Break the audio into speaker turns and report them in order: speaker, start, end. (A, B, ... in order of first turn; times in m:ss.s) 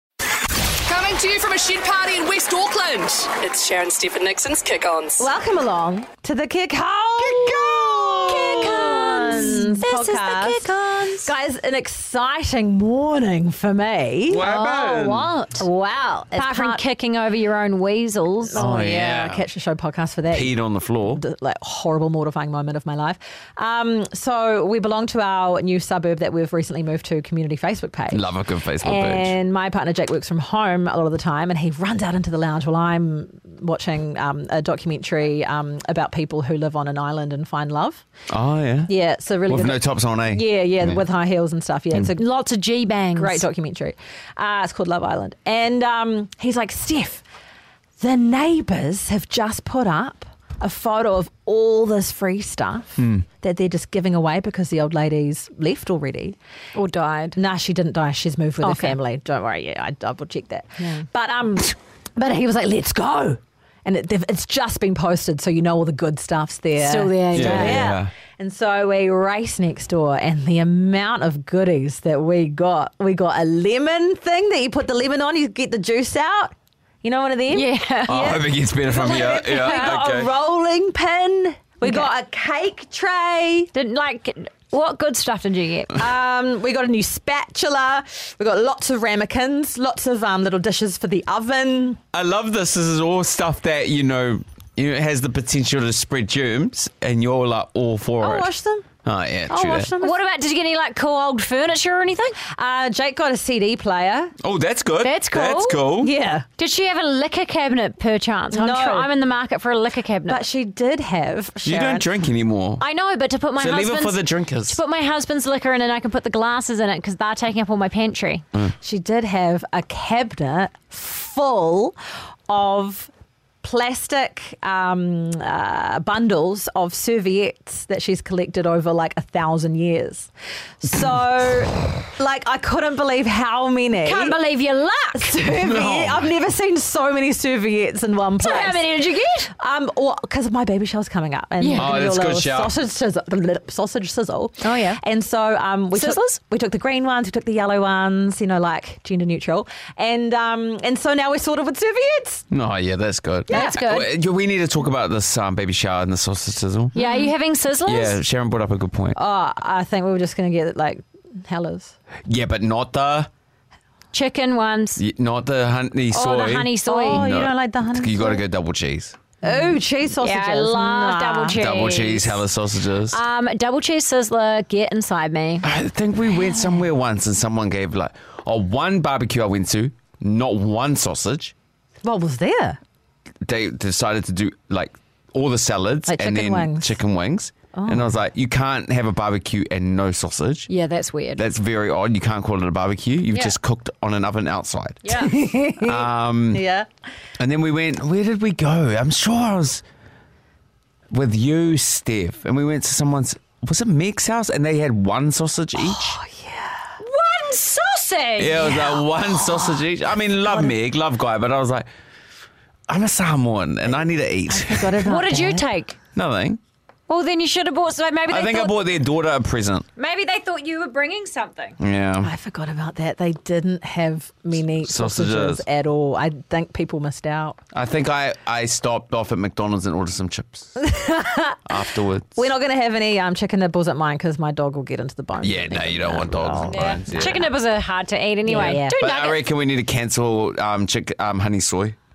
0:00.8-0:05.3 A
0:05.2-0:10.7 B
0:07.3-0:08.8 C
0:08.3-0:11.3 D
0:11.2-0:14.4 B
0:14.3-0:15.3 C
0:14.4-0:15.7 D
0:15.6-0:16.8 B
0:16.3-0:18.7 D
0:18.5-0:28.3 B
0:18.5-0:19.5 C
0:20.3-0:21.2 C
0:28.1-0:29.3 C
0:28.8-0:38.0 B
0:38.3-0:38.9 C
0:38.9-0:42.2 B
0:39.5-0:41.0 C
0:42.1-0:43.5 D
0:43.1-0:47.2 B
0:48.0-0:56.4 B
0:53.0-0:53.2 C
0:56.7-0:57.4 D
0:57.4-1:23.7 B
0:58.6-0:59.0 D
1:06.8-1:07.9 D
1:07.3-1:08.1 C
1:17.5-1:20.1 D
1:18.1-1:20.3 C
1:21.8-1:22.1 D
1:23.7-1:26.0 D
1:25.9-1:32.0 B
1:32.1-1:39.9 C
1:38.2-1:38.8 B
1:39.5-1:40.2 B
1:40.0-1:42.4 D
1:42.5-1:44.3 B
1:44.4-1:46.1 C
1:45.0-1:45.9 D
1:46.0-1:46.4 B
1:46.6-1:50.4 D
1:48.5-1:49.1 B
1:50.3-1:52.1 B
1:51.6-1:52.8 C
1:52.8-1:58.4 D
1:53.6-1:54.8 C
1:58.8-2:02.0 B
2:02.5-2:03.1 B
2:03.6-2:14.4 B
2:14.0-2:15.4 D
2:15.1-2:18.8 B
2:15.5-2:16.3 C
2:18.4-2:19.5 D
2:19.6-2:32.4 B
2:21.6-2:21.9 D
2:21.8-2:22.7 C
2:25.9-2:26.4 D
2:32.5-2:36.9 C
2:33.5-2:33.8 B
2:33.5-2:34.1 D
2:36.9-2:37.3 B
2:36.9-2:38.2 D
2:37.8-2:39.2 C
2:39.1-2:42.0 B
2:42.3-2:43.3 C
2:44.1-2:45.0 D
2:45.0-2:49.2 C
2:46.1-2:47.3 D
2:46.8-2:48.4 B
2:49.4-2:51.6 B
2:49.4-2:52.4 D
2:51.6-2:53.2 C
2:53.1-2:55.6 D
2:55.6-3:01.5 C
3:02.0-3:02.8 B
3:03.4-3:10.7 C
3:06.1-3:07.0 B
3:07.7-3:08.1 B
3:10.7-3:11.4 D
3:11.4-3:15.0 C
3:15.0-3:15.3 D
3:15.1-3:16.9 B
3:15.8-3:16.6 C
3:17.4-3:19.8 C
3:21.1-3:26.2 C
3:25.8-3:26.9 B
3:27.0-3:29.0 D
3:28.4-3:31.9 C
3:29.5-3:29.8 B
3:30.4-3:30.7 B
3:32.9-3:35.0 C
3:34.5-3:35.6 B
3:35.0-3:36.0 D
3:36.1-3:36.6 C
3:37.1-3:38.8 D
3:38.3-3:39.8 C
3:40.0-3:41.8 D
3:41.8-3:42.3 C
3:42.2-3:47.6 B
3:44.8-3:45.6 C
3:47.7-3:50.7 C
3:50.8-3:51.6 B
3:51.6-3:52.5 C
3:52.3-3:56.9 B
3:55.4-3:57.5 C
3:56.7-3:59.4 D
3:58.4-3:59.0 B
3:58.6-4:02.0 C